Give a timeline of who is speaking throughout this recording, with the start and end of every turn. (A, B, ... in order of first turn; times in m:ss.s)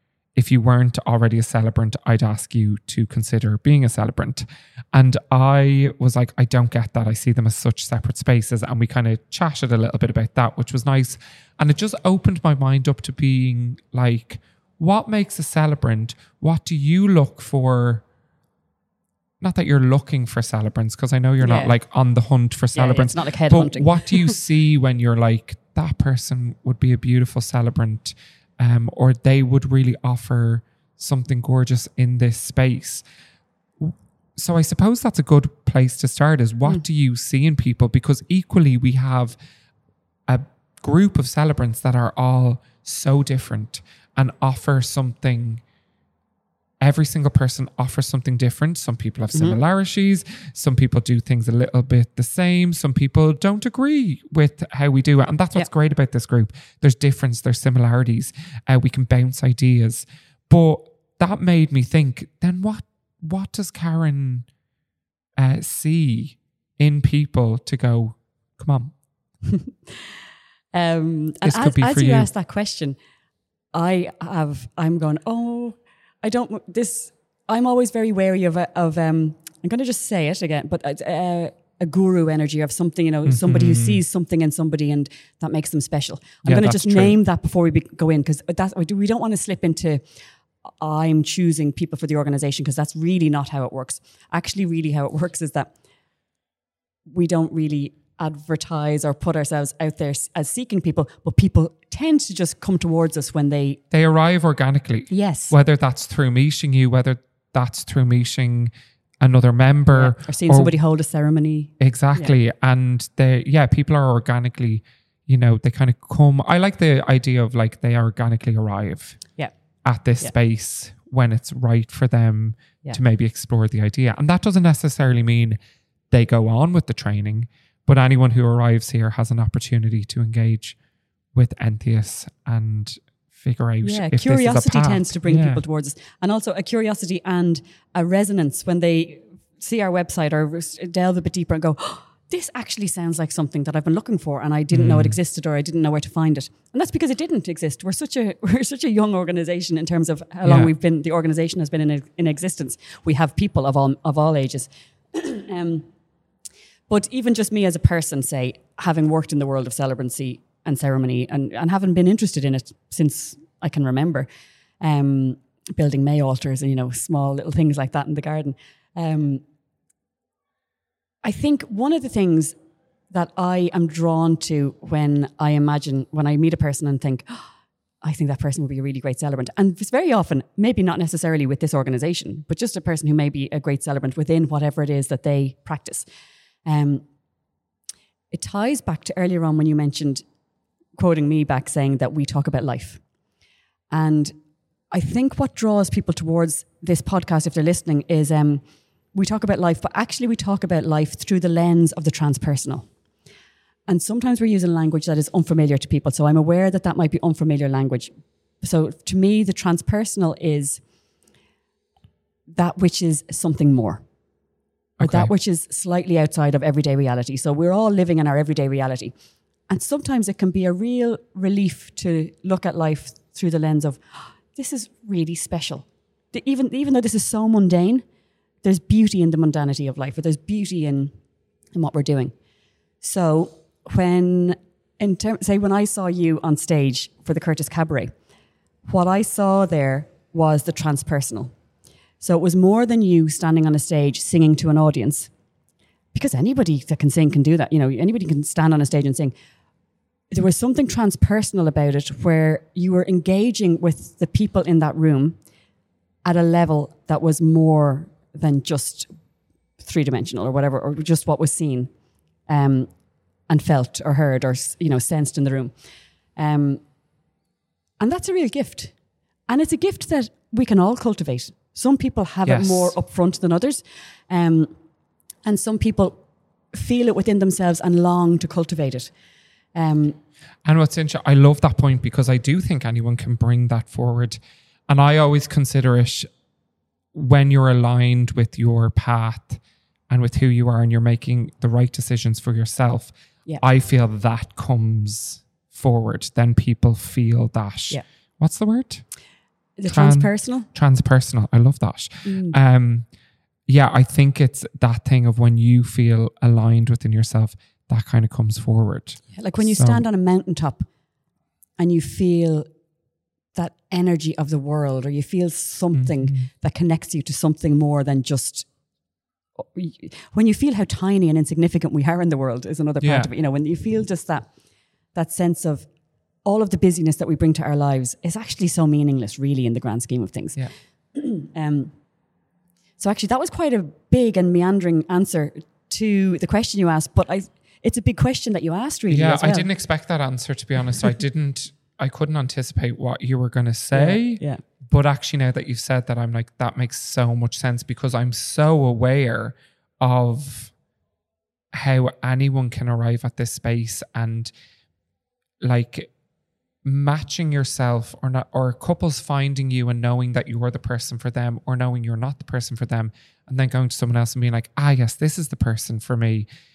0:00.4-0:18.0 A
0:19.4-0:33.0 A
0:21.4-0:21.7 B
0:22.7-0:24.4 B
0:33.8-0:39.4 A
0:40.3-0:45.6 A
0:46.8-1:04.5 A
0:49.3-0:49.6 B
1:05.4-1:08.9 A
1:09.4-1:10.1 B
1:10.7-1:13.0 B
1:11.4-1:12.3 A
1:13.7-1:30.0 B
1:23.2-1:24.0 A
1:26.4-1:27.2 A
1:30.8-1:35.7 B
1:37.1-1:43.8 B
1:43.9-1:48.7 A
1:45.1-1:45.5 B
1:49.2-1:50.7 A
1:49.9-1:52.3 B
1:51.8-1:59.2 A
1:59.8-2:05.6 A
2:06.1-2:10.8 A
2:11.3-2:15.6 A
2:13.8-2:35.9 B
2:24.7-2:25.2 A
2:30.4-2:30.7 A
2:36.9-2:44.3 B
2:44.8-2:49.4 B
2:51.2-2:52.5 B
2:53.1-2:57.5 B
2:58.0-3:06.0 B
3:06.6-3:07.0 B
3:08.3-3:10.2 B
3:11.0-3:13.0 B
3:13.9-3:14.3 B
3:14.9-3:18.6 B
3:19.1-3:22.9 B
3:23.9-3:30.8 B
3:32.5-3:34.0 B
3:35.0-3:35.3 A
3:35.0-3:39.1 B
3:39.7-3:48.0 B
3:48.6-3:51.1 B
3:51.7-3:52.3 B
3:53.0-3:58.1 B
3:58.8-4:01.5 B
4:02.2-4:05.3 B
4:06.1-4:09.3 B
4:10.3-4:15.4 B
4:16.2-4:19.1 B
4:19.8-4:21.9 B
4:22.5-4:22.9 B
4:23.5-4:25.7 B
4:26.4-4:26.8 B
4:28.0-4:28.9 B
4:29.5-4:34.7 B
4:32.4-4:32.9 A
4:35.4-4:36.2 B
4:36.7-4:39.1 B
4:39.7-4:40.2 B
4:40.6-4:46.3 A
4:47.1-4:59.0 A
4:59.8-5:00.7 B
4:59.9-5:03.0 A
5:02.2-5:02.6 B
5:03.7-5:10.0 A
5:09.3-5:10.8 B
5:11.8-5:12.7 B
5:13.5-5:18.7 B
5:15.9-5:16.5 A
5:19.6-5:24.5 B
5:23.0-5:23.3 A
5:25.1-5:25.9 B
5:26.4-5:31.9 B
5:33.0-5:39.6 B
5:39.1-5:50.7 A
5:43.9-5:44.6 B
5:51.7-5:54.5 A
5:55.6-5:56.1 A
5:56.8-6:06.4 A